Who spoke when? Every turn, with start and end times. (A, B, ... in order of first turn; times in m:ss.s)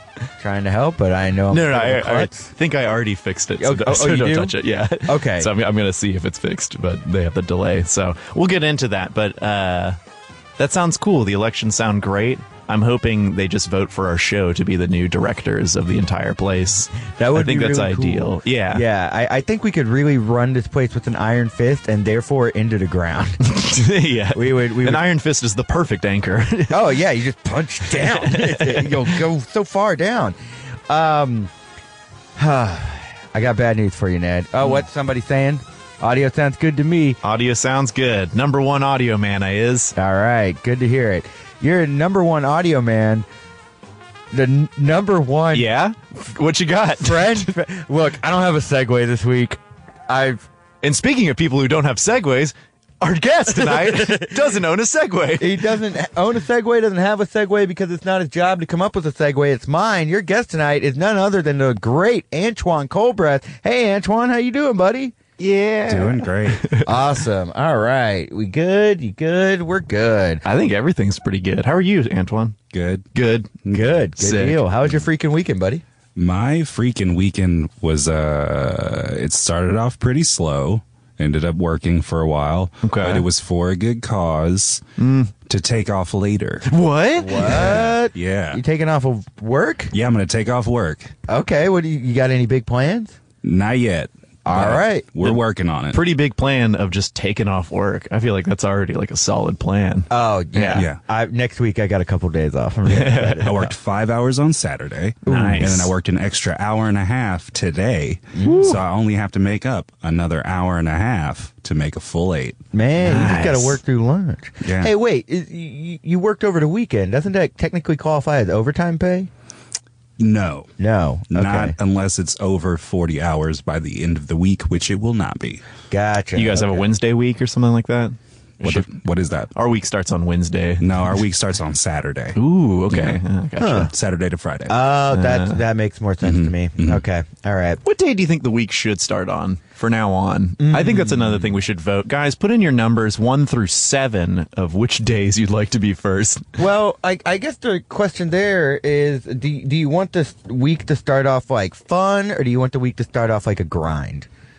0:00.4-0:02.5 A
0:01.5-0:10.0 B
0:03.6-0:05.5 A
0:10.6-0:18.9 B
0:17.2-0:23.5 A
0:23.4-0:26.9 B
0:24.3-0:25.0 A
0:26.7-0:30.4 A
0:27.8-0:29.2 B
0:30.9-0:31.5 A
0:32.4-0:37.2 A
0:37.2-0:39.9 B
0:40.0-0:43.3 A
0:44.3-0:45.7 A
0:45.5-0:47.5 B
0:47.0-0:50.5 A
0:50.8-0:55.7 B
0:53.7-0:54.3 A
0:55.4-1:05.2 A
1:05.4-1:07.0 B
1:05.9-1:06.8 C
1:06.8-1:10.4 A
1:10.4-1:12.6 B
1:12.7-1:13.1 C
1:13.1-1:14.6 B
1:13.6-1:14.0 C
1:13.7-1:15.8 A
1:16.2-1:24.8 C
1:22.8-1:23.2 B
1:25.0-1:25.3 B
1:25.5-1:26.7 C
1:26.7-1:27.8 B
1:27.2-1:29.9 A
1:27.4-1:28.6 C
1:29.9-1:31.1 C
1:31.3-1:33.2 A
1:33.4-1:36.0 C
1:34.4-1:35.1 A
1:35.9-1:40.9 B
1:40.1-1:43.7 A
1:40.8-1:41.0 C
1:42.9-1:43.5 B
1:43.4-1:52.6 C
1:45.3-1:45.8 A
1:45.3-1:45.9 B
1:48.4-1:48.7 A
1:48.4-1:48.8 B
1:52.7-1:59.3 A
1:53.0-1:53.8 B
1:54.6-1:54.9 C
2:00.2-2:00.7 C
2:00.8-2:01.8 A
2:01.3-2:05.6 C
2:05.9-2:06.9 A
2:06.4-2:08.9 B
2:08.6-2:09.5 C
2:09.5-2:11.0 B
2:10.8-2:12.4 C
2:12.4-2:13.9 B
2:12.9-2:13.2 C
2:13.6-2:13.9 A
2:13.9-2:14.8 C
2:14.7-2:17.8 A
2:15.1-2:15.6 B
2:16.2-2:17.0 C
2:17.8-2:26.6 B
2:20.6-2:21.5 A
2:26.6-2:34.3 A